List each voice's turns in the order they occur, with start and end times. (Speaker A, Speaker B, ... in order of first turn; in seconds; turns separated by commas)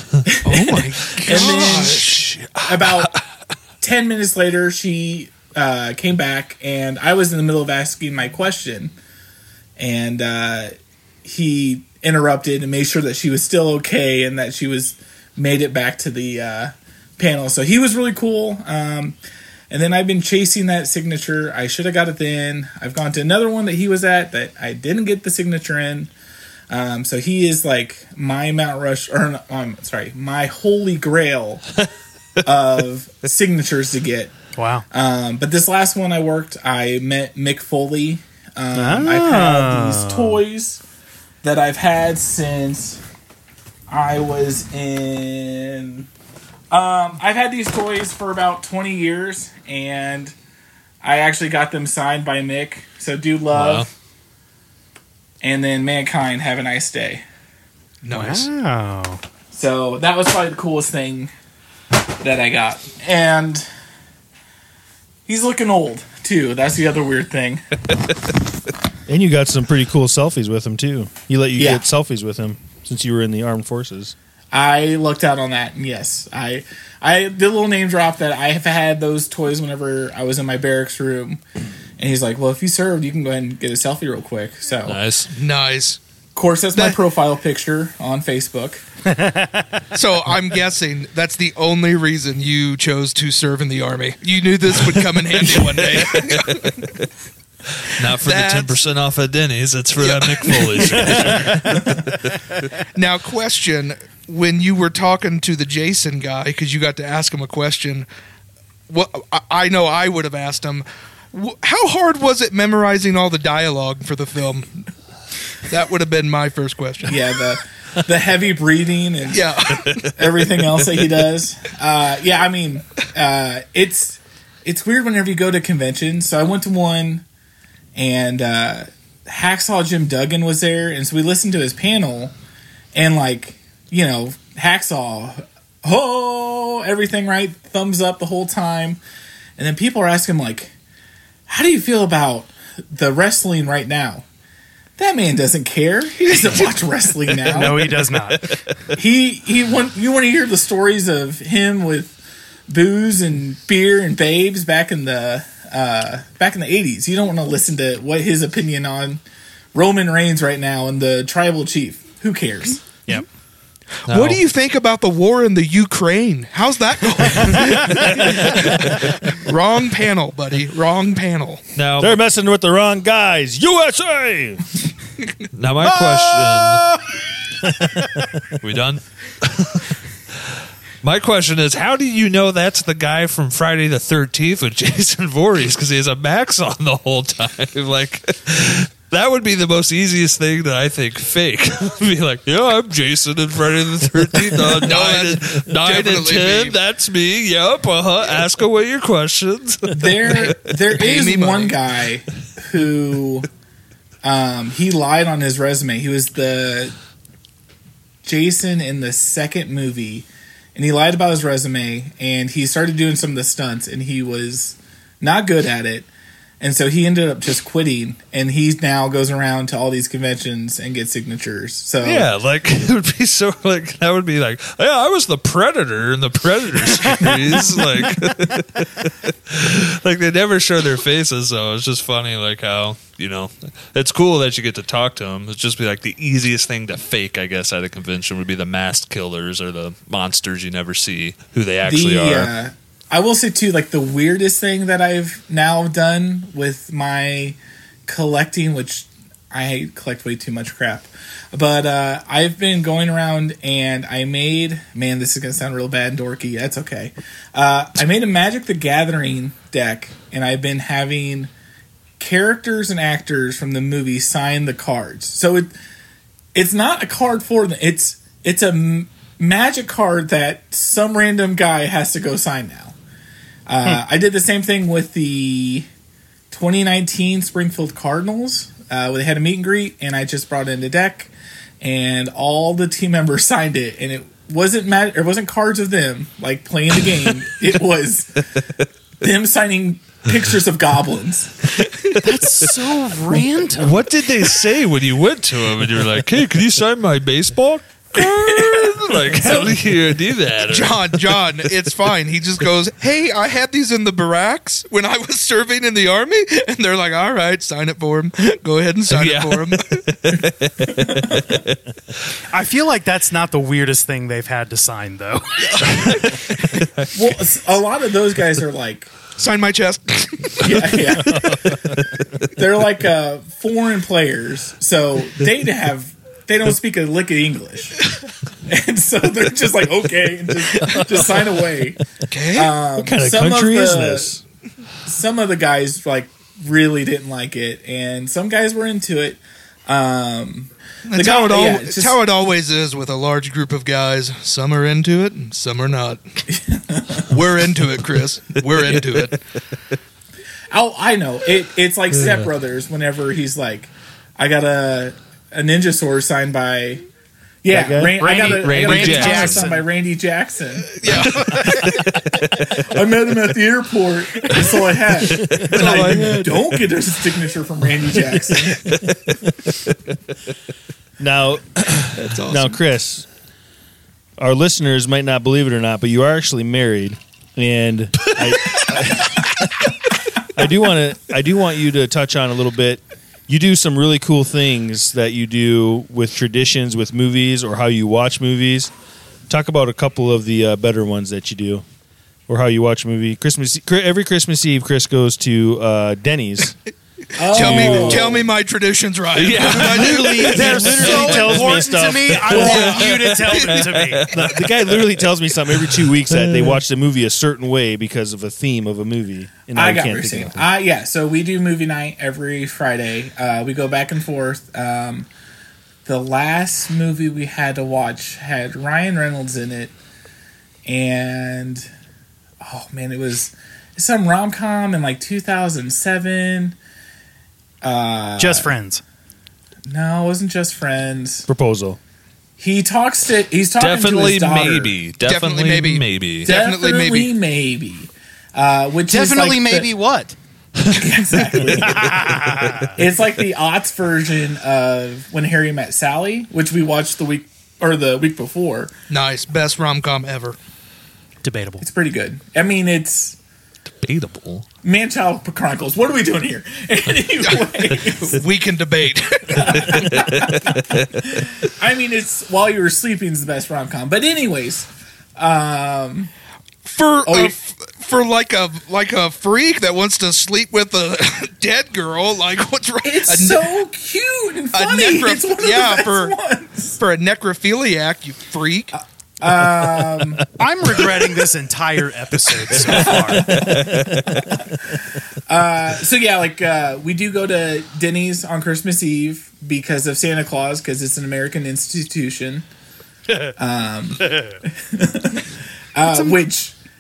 Speaker A: 0.2-3.1, Speaker B: 0.5-2.2, Speaker C: 1.3-3.1, Speaker A: 3.8-8.9, Speaker A: 9.8-10.7, Speaker A: 11.2-19.2, Speaker A: 19.7-26.1, Speaker A: 26.7-31.8, Speaker A: 32.4-34.3, Speaker D: 34.6-34.9, Speaker A: 34.9-40.8, Speaker D: 38.7-40.4, Speaker A: 41.4-43.0, Speaker A: 43.9-46.1, Speaker A: 46.7-50.3, Speaker A: 51.0-53.9, Speaker C: 53.5-53.9, Speaker A: 55.4-57.2, Speaker B: 58.0-58.5, Speaker D: 58.1-59.2, Speaker A: 59.5-61.3, Speaker A: 62.2-63.7, Speaker A: 65.3-67.6, Speaker E: 69.1-74.2, Speaker A: 71.6-71.8, Speaker A: 74.5-81.4, Speaker A: 82.0-85.0, Speaker C: 84.8-85.3, Speaker B: 85.3-86.0, Speaker A: 86.4-88.8, Speaker D: 89.1-89.6, Speaker B: 89.9-96.9, Speaker C: 96.0-96.9, Speaker C: 97.8-102.1, Speaker B: 98.1-98.8, Speaker B: 100.0-101.6, Speaker D: 101.1-101.8, Speaker B: 103.0-108.1, Speaker B: 108.9-114.9, Speaker B: 115.7-117.4, Speaker A: 117.0-127.2, Speaker B: 119.3-120.3, Speaker A: 128.0-132.3, Speaker A: 132.9-139.0, Speaker A: 139.6-140.7, Speaker A: 141.5-144.2, Speaker A: 145.0-148.0, Speaker D: 147.4-148.5, Speaker A: 148.9-159.2, Speaker A: 159.7-162.9, Speaker C: 164.1-164.4, Speaker B: 164.1-171.6, Speaker C: 171.8-172.2, Speaker E: 172.0-174.7, Speaker C: 175.5-176.8, Speaker D: 175.8-177.2, Speaker E: 177.7-177.9, Speaker C: 178.6-179.9, Speaker C: 181.0-200.6, Speaker B: 194.8-196.8, Speaker A: 199.9-203.5, Speaker B: 201.0-201.8, Speaker A: 204.2-206.9, Speaker A: 208.2-216.1, Speaker A: 216.6-222.3, Speaker C: 222.0-242.5, Speaker A: 241.8-261.5, Speaker A: 262.2-265.7, Speaker A: 266.5-272.9, Speaker A: 273.7-275.9, Speaker A: 276.5-281.3, Speaker A: 281.8-288.5, Speaker A: 289.2-291.7, Speaker D: 292.2-294.1, Speaker C: 293.8-301.4, Speaker B: 300.7-310.0, Speaker C: 309.1-311.7, Speaker D: 312.5-316.6, Speaker B: 315.8-316.1, Speaker C: 316.8-317.1, Speaker A: 317.1-319.1, Speaker B: 319.4-321.5, Speaker A: 320.6-328.1, Speaker A: 328.7-334.3, Speaker B: 332.3-332.8, Speaker E: 333.0-334.4, Speaker A: 335.1-342.2, Speaker B: 341.1-346.4, Speaker A: 346.5-347.3, Speaker B: 347.2-349.4, Speaker A: 350.7-357.1, Speaker A: 357.6-369.0, Speaker E: 357.7-359.0, Speaker D: 358.2-359.9, Speaker C: 358.4-359.7, Speaker B: 360.9-362.2, Speaker E: 365.4-366.0, Speaker B: 365.6-366.9, Speaker E: 371.2-373.3, Speaker B: 372.2-372.8, Speaker E: 374.4-379.9, Speaker E: 380.5-388.9, Speaker E: 389.5-391.9, Speaker E: 392.5-396.8, Speaker A: 397.4-398.5, Speaker B: 397.4-401.2, Speaker E: 397.5-398.4, Speaker C: 399.4-401.8, Speaker E: 399.6-402.9, Speaker D: 400.2-404.3, Speaker C: 402.5-405.0, Speaker A: 402.5-403.1, Speaker E: 404.3-410.7, Speaker C: 405.9-406.4, Speaker A: 409.7-415.3, Speaker A: 416.1-419.9, Speaker A: 420.9-421.9, Speaker A: 422.6-426.8, Speaker A: 427.8-428.8, Speaker D: 428.4-429.0, Speaker A: 429.9-431.5, Speaker E: 431.5-432.0, Speaker A: 432.6-434.9, Speaker C: 433.8-436.6, Speaker B: 435.2-437.4, Speaker A: 436.4-439.9, Speaker D: 439.1-440.4, Speaker A: 440.9-442.3, Speaker D: 441.9-442.9, Speaker C: 442.4-442.9, Speaker A: 443.0-448.9, Speaker B: 449.1-450.6, Speaker D: 451.4-451.8, Speaker A: 451.8-453.4, Speaker C: 454.0-454.6, Speaker A: 454.8-458.4, Speaker B: 457.4-460.3, Speaker A: 459.5-466.3, Speaker C: 459.8-461.0, Speaker B: 466.9-473.7, Speaker A: 467.3-467.6, Speaker A: 473.0-477.0, Speaker B: 474.7-476.4, Speaker B: 477.0-478.9, Speaker A: 478.9-480.5, Speaker D: 480.5-483.8, Speaker A: 482.8-485.0, Speaker E: 483.4-484.2, Speaker A: 485.5-492.7, Speaker A: 493.6-496.8, Speaker D: 496.0-496.4